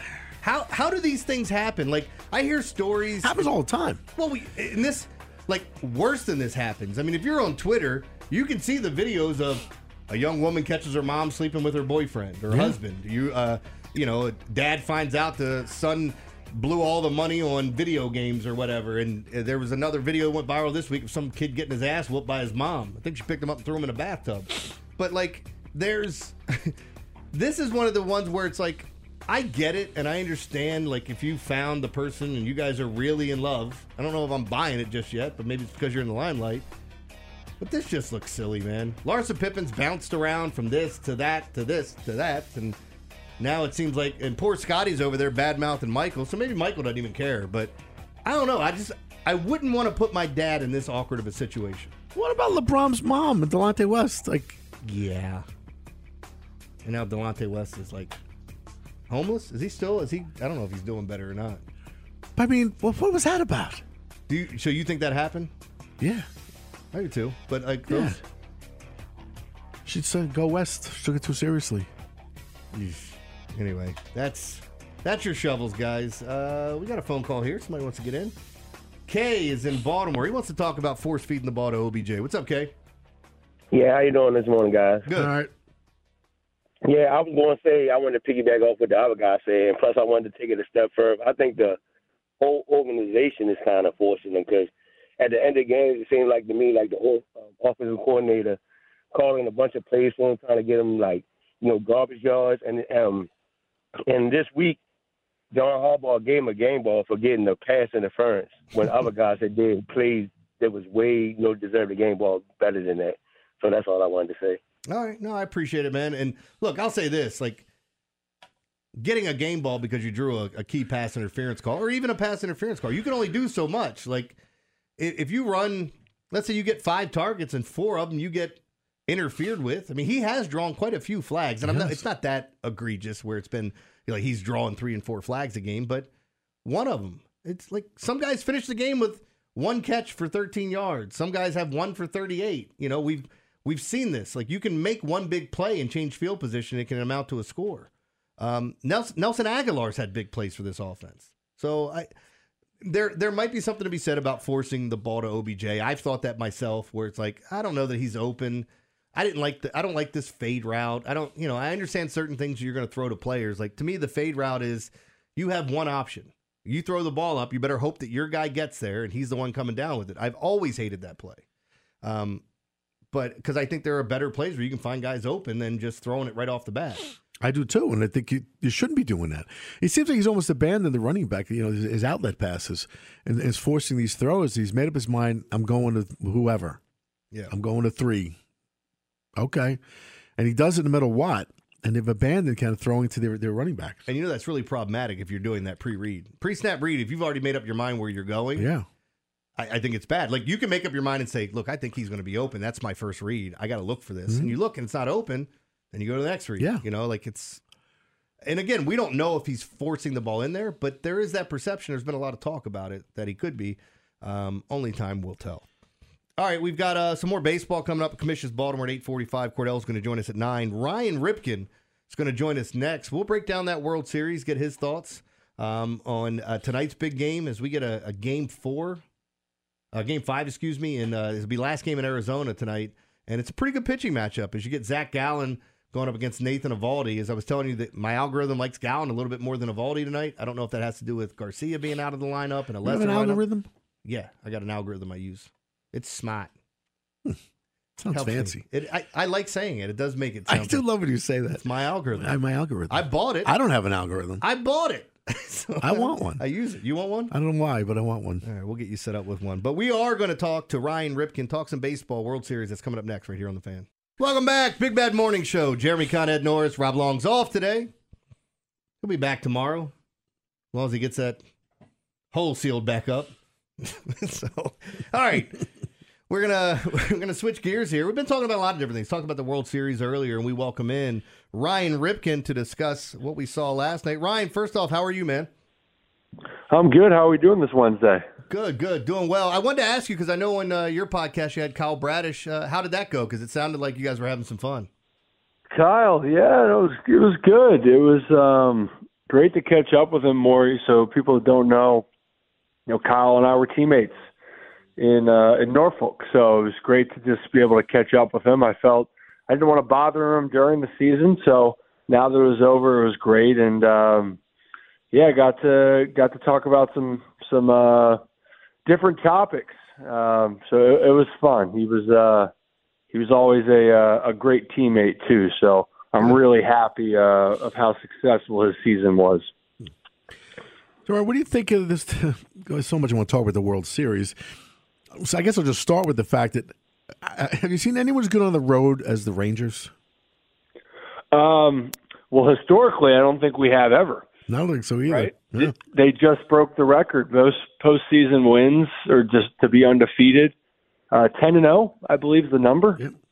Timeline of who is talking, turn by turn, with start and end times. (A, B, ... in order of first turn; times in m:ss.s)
0:00.4-0:03.5 A
0:03.2-0:04.0 B
0:04.2-0:26.7 A
0:12.5-0:12.8 B
0:27.3-0:36.7 A
0:37.6-0:42.8 A
0:43.4-0:51.9 A
0:52.1-0:54.6 B
0:54.8-0:55.4 A
0:56.8-0:58.2 A
0:59.1-1:01.6 A
1:02.4-1:03.8 B
1:04.3-1:05.5 A
1:06.0-1:06.3 B
1:06.9-1:08.2 A
1:07.9-1:08.2 B
1:09.8-1:11.9 B
1:12.7-1:18.3 A
1:19.1-1:22.7 A
1:23.7-1:25.0 C
1:25.1-1:25.3 A
1:25.1-1:25.5 B
1:26.8-1:31.8 C
1:32.4-1:38.6 C
1:39.1-1:43.3 C
1:44.1-1:44.8 C
1:45.5-1:54.6 C
1:54.9-1:57.6 A
1:59.0-2:04.4 A
2:05.0-2:16.1 A
2:11.6-2:12.0 B
2:16.6-2:32.1 A
2:32.8-2:51.4 A
2:52.0-2:52.4 A
2:53.1-2:57.1 A
2:57.4-3:06.8 B
3:07.5-3:08.4 B
3:09.4-3:09.8 B
3:10.4-3:14.0 B
3:14.1-3:18.7 A
3:18.6-3:18.8 B
3:19.6-3:27.6 A
3:24.3-3:24.5 B
3:26.6-3:26.8 B
3:28.4-3:35.6 A
3:36.4-3:49.0 A
3:49.9-4:03.4 A
4:02.8-4:03.7 B
4:04.0-4:06.5 A
4:08.0-4:08.6 B
4:08.1-4:10.8 A
4:10.5-4:14.4 B
4:11.5-4:12.3 A
4:12.9-4:13.5 A
4:14.4-4:17.3 A
4:15.8-4:16.4 B
4:17.3-4:18.4 B
4:18.4-4:27.9 A
4:29.0-4:29.9 A
4:30.7-4:31.4 A
4:32.3-4:35.6 A
4:36.3-4:45.5 A
4:46.7-4:48.2 D
4:48.5-4:54.9 A
4:55.7-5:02.0 D
5:02.9-5:04.2 D
5:05.0-5:14.4 D
5:15.1-5:18.2 D
5:18.8-5:22.5 D
5:23.1-5:29.5 D
5:31.0-5:34.4 B
5:35.2-5:39.9 B
5:41.3-5:44.2 D
5:44.5-5:45.7 B
5:45.1-5:50.5 D
5:51.1-5:53.0 D